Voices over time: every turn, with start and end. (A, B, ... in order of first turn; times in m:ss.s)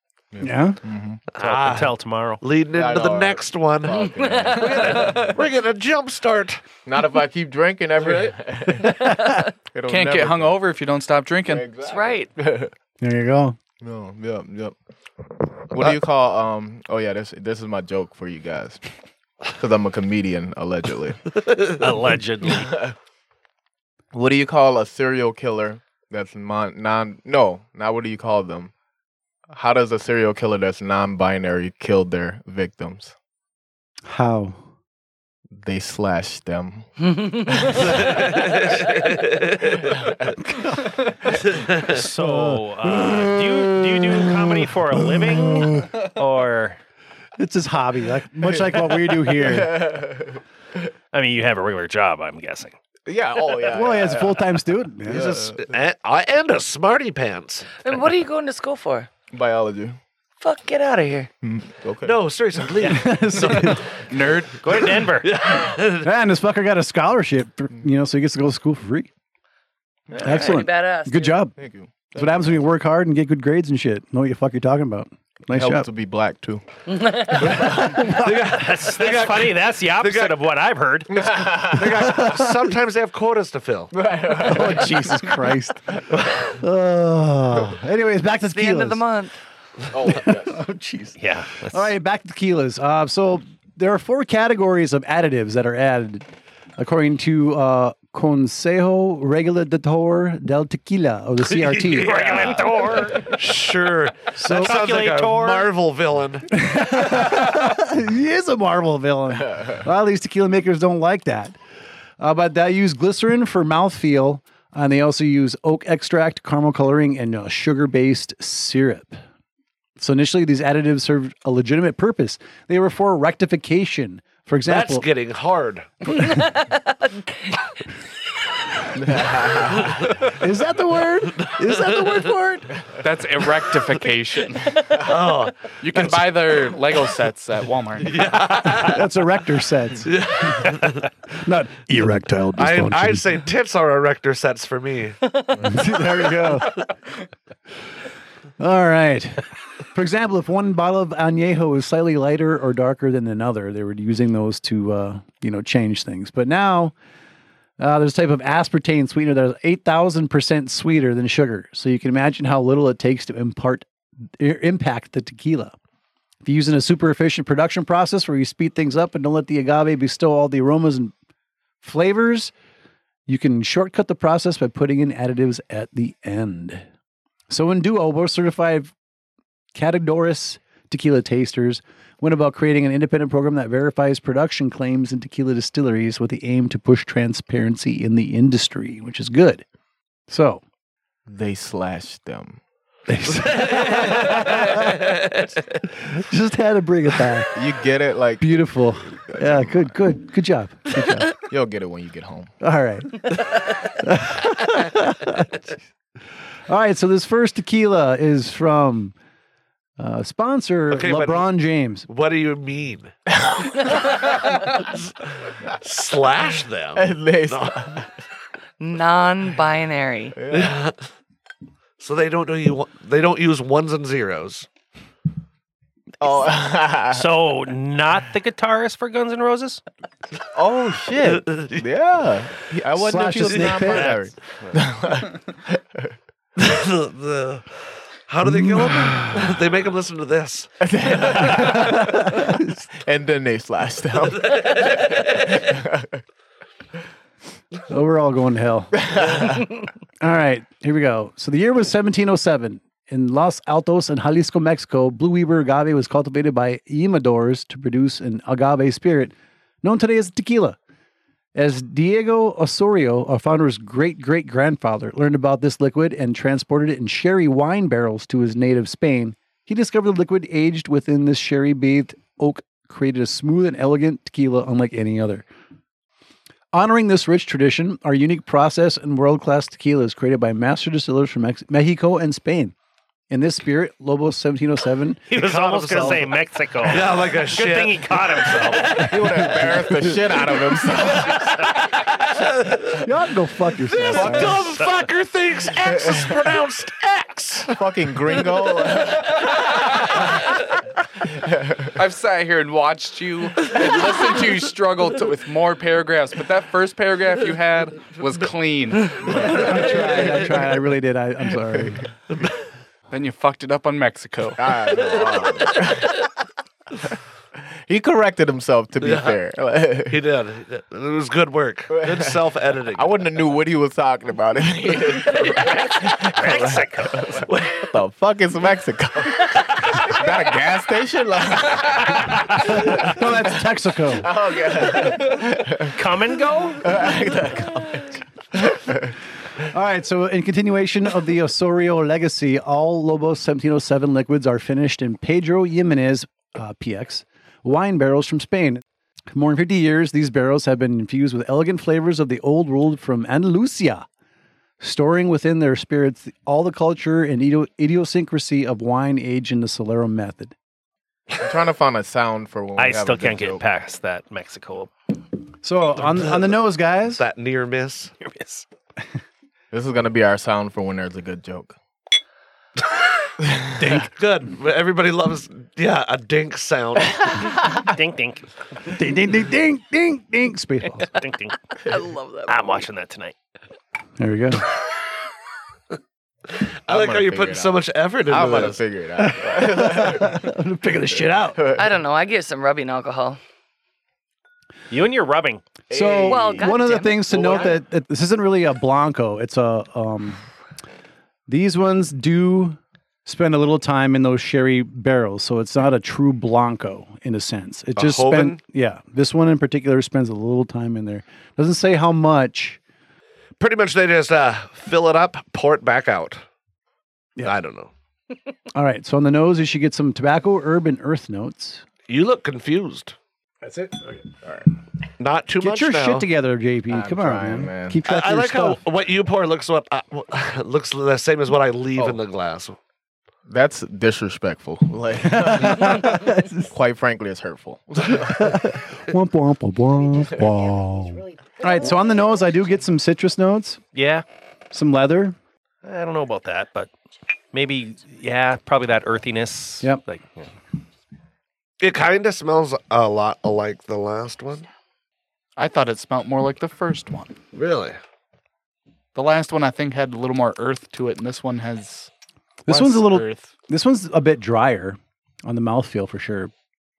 0:00.3-0:01.2 A
0:00.4-0:00.8 B
0:01.4-0:06.6 C
0:01.4-0:02.4 D
0:02.7-0:05.3 A
0:04.1-0:05.2 E
0:06.9-0:09.2 A
0:09.0-0:09.3 E
0:09.7-0:10.6 A
0:09.9-0:11.7 F
0:11.5-0:12.7 A
0:11.8-0:12.3 E
0:13.0-0:13.6 B
0:13.8-0:14.8 A
0:15.7-0:18.8 A
0:19.6-0:21.2 A
0:21.8-0:22.8 D
0:22.6-0:22.9 A
0:24.1-0:28.7 A
0:29.5-0:33.2 A
0:34.0-0:34.6 B
0:35.6-0:38.0 A
0:37.2-0:37.7 E
0:37.7-0:40.0 C
0:39.9-0:40.2 A
0:40.5-0:40.9 B
0:41.5-0:42.0 C
0:41.7-0:46.8 D
0:41.9-0:44.5 B
0:45.4-0:45.9 B
0:47.4-0:50.0 B
0:48.5-0:50.4 A
0:51.1-0:52.8 D
0:53.1-0:55.7 A
0:53.7-0:55.3 B
0:55.1-0:57.7 C
0:57.8-0:59.1 E
0:59.3-1:00.0 A
1:00.4-1:01.3 E
1:01.4-1:02.3 A
1:02.0-1:03.8 C
1:02.8-1:03.9 B
1:04.1-1:04.9 F
1:04.6-1:05.3 D
1:04.7-1:06.1 C
1:06.0-1:09.1 B
1:10.2-1:11.5 E
1:10.2-1:11.6 B
1:11.6-1:12.7 A
1:12.2-1:15.9 B
1:15.5-1:18.0 A
1:17.5-1:20.3 C
1:17.5-1:21.6 D
1:17.8-1:18.2 B
1:21.2-1:22.0 A
1:21.2-1:23.9 C
1:21.7-1:22.5 B
1:23.9-1:25.3 A
1:24.4-1:29.0 B
1:28.4-1:29.4 E
1:29.9-1:30.6 A
1:30.1-1:42.2 B
1:31.2-1:31.9 D
1:41.5-1:46.6 C
1:41.9-1:43.4 D
1:42.2-1:42.5 F
1:44.4-1:44.8 B
1:44.5-1:45.7 D
1:46.5-1:51.6 B
1:49.5-1:49.8 A
1:52.2-1:59.2 B
2:00.0-2:05.1 B
2:04.7-2:06.0 C
2:06.1-2:07.6 E
2:09.0-2:10.2 A
2:09.8-2:10.3 C
2:10.3-2:12.7 B
2:11.3-2:12.3 C
2:13.0-2:14.8 F
2:14.9-2:16.2 C
2:15.8-2:18.2 F
2:18.0-2:19.1 C
2:18.5-2:20.8 B
2:20.0-2:21.1 C
2:21.3-2:23.4 B
2:22.6-2:25.2 C
2:25.6-2:26.9 B
2:28.6-2:36.9 B
2:37.8-2:43.9 B
2:44.4-2:45.8 B
2:46.4-2:51.1 B
2:51.8-2:52.5 B
2:53.3-2:56.8 B
2:57.5-2:58.9 B
2:59.7-3:09.6 B
3:10.3-3:10.6 B
3:11.3-3:12.6 A
3:13.1-3:15.1 B
3:13.3-3:15.4 C
3:16.0-3:17.6 B
3:17.5-3:18.5 A
3:18.4-3:21.3 B
3:19.3-3:19.8 A
3:21.4-3:22.5 A
3:22.6-3:25.6 B
3:26.7-3:29.2 B
3:30.0-3:32.1 B
3:30.9-3:31.6 C
3:32.1-3:33.1 C
3:33.4-3:33.8 A
3:33.8-3:38.1 C
3:37.0-3:38.1 A
3:38.8-3:40.4 E
3:40.4-3:40.8 A
3:40.5-3:41.0 C
3:42.0-3:44.7 C
3:46.2-3:47.3 A
3:47.1-3:49.8 D
3:50.5-3:56.1 A
3:51.2-3:51.8 C
3:52.9-3:54.1 B
3:53.9-3:54.2 D
3:56.6-3:57.8 C
3:58.3-4:00.8 C
3:58.4-3:59.4 B
4:00.8-4:06.2 A
4:01.5-4:02.8 B
4:04.4-4:05.5 C
4:07.9-4:09.4 B
4:09.1-4:09.7 A
4:10.2-4:20.8 B
4:21.6-4:35.4 B
4:36.7-4:42.7 B
4:43.3-4:45.2 B
4:45.3-4:49.8 C
4:45.3-4:49.1 D
4:48.9-4:51.7 A
4:51.0-4:53.1 C
4:52.9-4:54.6 B
4:54.0-4:57.8 C
4:54.0-4:54.7 A
4:55.8-4:56.3 A
4:57.7-4:59.8 A
5:01.3-5:01.9 A
5:02.0-5:09.7 F
5:09.2-5:10.4 A
5:09.3-5:12.1 B
5:11.7-5:12.0 A
5:13.1-5:14.8 F
5:14.6-5:16.2 A
5:17.9-5:20.2 A
5:19.0-5:19.4 C
5:20.1-5:23.1 C
5:21.9-5:22.4 A
5:22.9-5:33.5 A
5:25.6-5:27.3 D
5:32.6-5:34.3 B
5:34.1-5:36.0 A
5:35.1-5:37.0 D
5:36.8-5:39.1 A
5:39.7-5:54.1 B
5:54.8-6:00.5 B
6:01.4-6:03.6 A
6:02.8-6:04.9 D
6:05.6-6:07.2 B
6:07.2-6:08.1 C
6:08.2-6:08.7 D
6:09.7-6:11.8 A
6:13.4-6:14.1 A
6:13.8-6:17.3 C
6:17.4-6:17.8 A
6:17.6-6:18.5 D
6:18.8-6:21.1 B
6:21.1-6:21.6 D
6:21.8-6:22.7 E
6:22.5-6:23.4 D
6:24.2-6:24.7 B
6:26.9-6:28.8 C
6:26.9-6:30.5 A
6:29.2-6:31.6 B
6:31.6-6:32.0 A
6:31.8-6:33.4 E
6:34.9-6:35.6 D
6:35.9-6:36.8 A
6:35.9-6:40.4 B
6:36.3-6:37.8 E
6:37.3-6:37.8 A
6:41.5-6:52.8 B
6:48.0-6:48.6 C
6:53.6-6:56.4 C
6:57.4-6:57.9 C
6:58.7-7:01.8 B
7:02.1-7:03.2 C
7:03.6-7:04.2 B
7:05.2-7:06.3 C
7:05.6-7:08.8 B
7:06.9-7:08.0 A
7:08.0-7:12.8 C
7:13.5-7:18.7 A
7:15.2-7:16.7 B
7:18.2-7:23.8 B
7:23.9-7:24.2 D
7:24.7-7:25.4 B
7:25.8-7:26.9 D
7:27.5-7:30.5 D
7:31.8-7:34.7 C
7:35.6-7:37.4 F
7:37.5-7:38.0 C
7:39.2-7:42.1 F
7:42.7-7:43.5 F
7:42.7-7:46.5 B